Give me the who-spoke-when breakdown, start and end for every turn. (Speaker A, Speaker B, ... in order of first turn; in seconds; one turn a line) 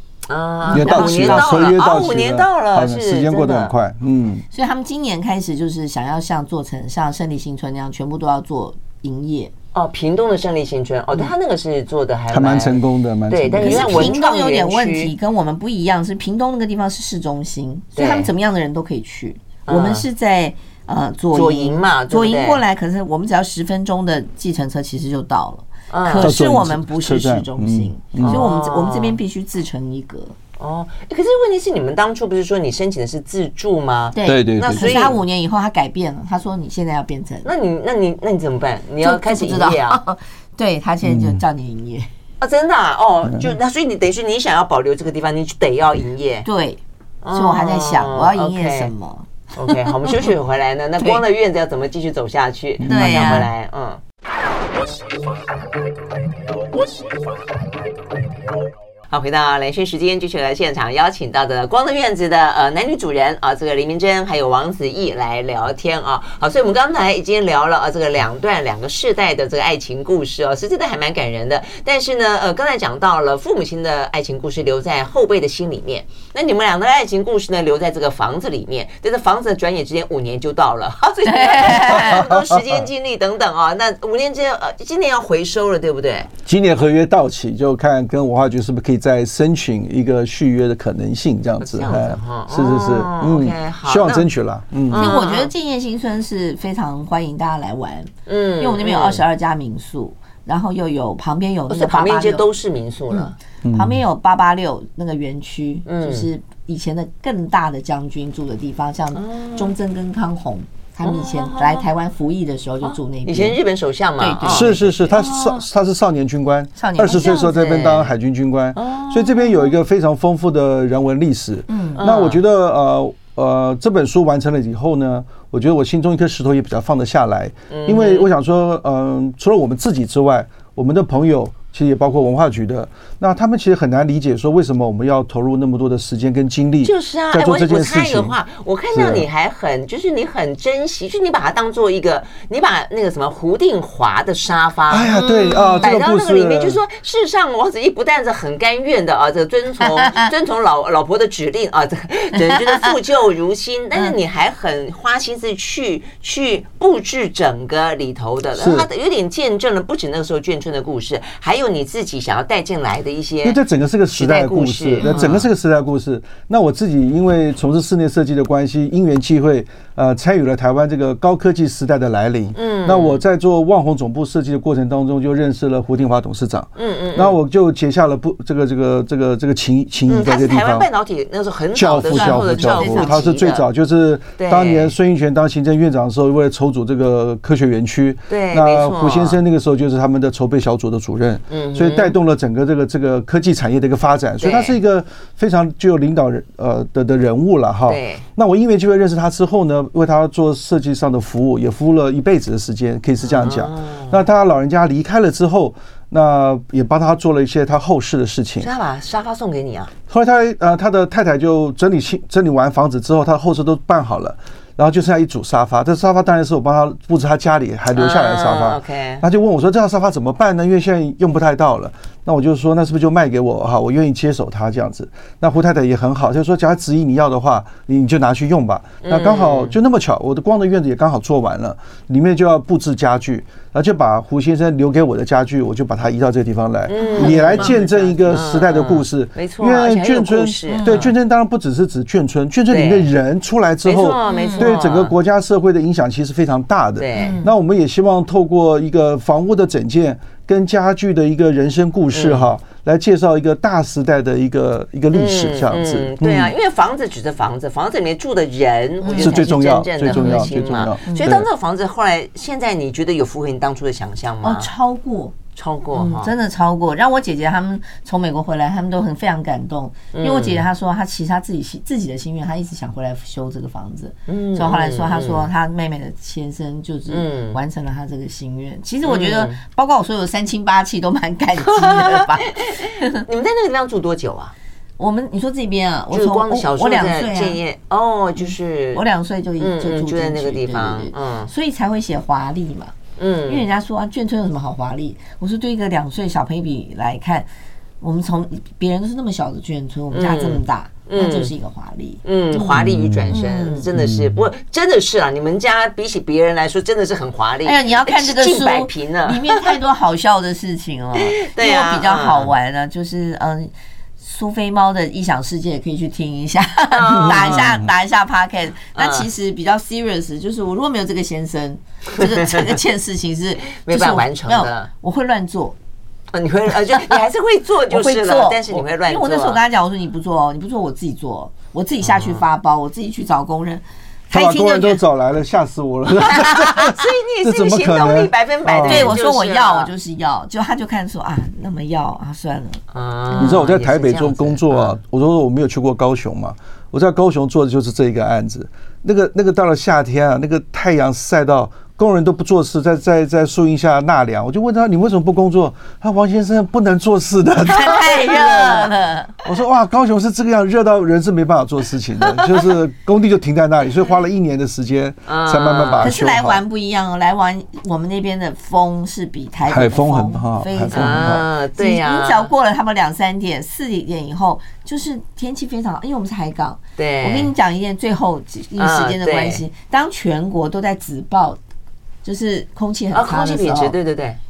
Speaker A: 0.3-3.7
Speaker B: 0.7-1.6
Speaker C: 0.7-4.4
Speaker B: 4.5-9.5
Speaker A: 9.7-15.1
Speaker C: 12.3-14.2
Speaker B: 13.6-30.4
Speaker A: 17.9-18.3
Speaker A: 19.7-20.1
Speaker A: 21.3-22.6
Speaker A: 25.9-26.3
Speaker C: 26.2-28.4
Speaker A: 28.2-29.2
Speaker A: 30.6-35.2
Speaker B: 34.1-37.5
Speaker C: 34.2-35.1
Speaker A: 37.4-40.0
Speaker B: 39.0-42.1
Speaker C: 41.0-41.4
Speaker A: 42.4-46.5
Speaker B: 46.4-50.3
Speaker A: 47.2-48.9
Speaker A: 49.5-54.0
Speaker C: 52.8-53.4
Speaker B: 52.9-53.5
Speaker A: 59.1-86.3
Speaker B: 81.2-82.2
Speaker C: 82.0-82.7
Speaker C: 86.5-95.1
Speaker A: 91.6-94.3
Speaker A: 94.9-95.5
Speaker B: 94.9-102.4
Speaker A: 98.3-99.2
Speaker A: 101.7-103.3
Speaker B: 103.1-113.6
Speaker C: 103.6-104.0
Speaker A: 105.8-106.3
Speaker A: 109.1-109.7
Speaker A: 111.0-111.8
Speaker A: 112.8-115.7
Speaker B: 114.2-115.2
Speaker C: 114.5-138.3
Speaker B: 116.8-117.7
Speaker A: 117.1-118.1
Speaker A: 118.8-119.8
Speaker B: 121.7-122.0
Speaker A: 122.0-122.4
Speaker A: 127.7-128.3
Speaker A: 136.8-163.6
Speaker C: 138.9-139.3
Speaker C: 144.9-146.8
Speaker B: 145.3-145.9
Speaker B: 149.9-150.3
Speaker B: 152.5-152.8
Speaker C: 158.6-158.9
Speaker C: 163.4-180.9
Speaker A: 164.1-165.5
Speaker B: 165.0-165.3
Speaker A: 172.5-173.2
Speaker A: 176.8-177.4
Speaker A: 180.1-183.6
Speaker C: 181.7-208.7
Speaker B: 182.1-183.3
Speaker A: 184.4-184.9
Speaker A: 188.3-189.4
Speaker A: 191.5-192.1
Speaker A: 194.4-194.8
Speaker A: 197.9-198.2
Speaker A: 203.2-204.2
Speaker A: 208.6-209.9
Speaker C: 210.1-256.5
Speaker A: 217.9-219.2
Speaker A: 229.0-229.8
Speaker A: 236.9-241.1
Speaker B: 237.0-237.9
Speaker B: 240.7-241.1
Speaker A: 242.7-243.1
Speaker A: 243.8-245.1
Speaker B: 244.2-244.7
Speaker A: 247.0-247.4
Speaker B: 247.1-247.5
Speaker A: 252.1-252.5
Speaker A: 255.1-264.7
Speaker B: 259.0-259.4
Speaker C: 259.1-261.5
Speaker B: 260.1-260.5
Speaker B: 261.1-261.4
Speaker B: 264.4-265.3
Speaker A: 265.6-266.3
Speaker B: 265.9-283.2
Speaker A: 270.1-270.6
Speaker A: 274.3-275.5
Speaker A: 277.1-277.6
Speaker A: 279.0-279.6
Speaker A: 281.7-284.5
Speaker B: 285.0-287.6
Speaker A: 286.1-289.0
Speaker B: 288.9-292.9
Speaker A: 289.6-291.5
Speaker A: 293.2-293.6
Speaker B: 293.5-297.5
Speaker B: 298.0-303.9
Speaker A: 300.1-301.5
Speaker A: 302.2-309.8
Speaker C: 302.7-303.4
Speaker C: 303.9-304.4
Speaker B: 307.6-325.8
Speaker A: 311.1-312.5
Speaker A: 316.9-317.8
Speaker A: 318.9-319.3
Speaker A: 322.2-322.6
Speaker A: 323.8-324.9
Speaker A: 326.3-329.6
Speaker B: 327.9-335.0
Speaker A: 332.1-332.4
Speaker C: 334.3-339.1
Speaker B: 336.3-336.9
Speaker A: 336.4-339.9
Speaker B: 338.8-343.7
Speaker A: 342.9-345.0
Speaker C: 343.4-358.9
Speaker B: 357.6-359.3
Speaker A: 358.3-358.9
Speaker C: 359.4-366.6
Speaker A: 362.2-362.6
Speaker A: 365.3-366.1
Speaker B: 366.0-381.6
Speaker C: 369.7-371.4
Speaker A: 370.9-372.5
Speaker A: 377.0-377.5
Speaker A: 378.8-379.6
Speaker B: 382.2-383.9
Speaker A: 383.1-384.4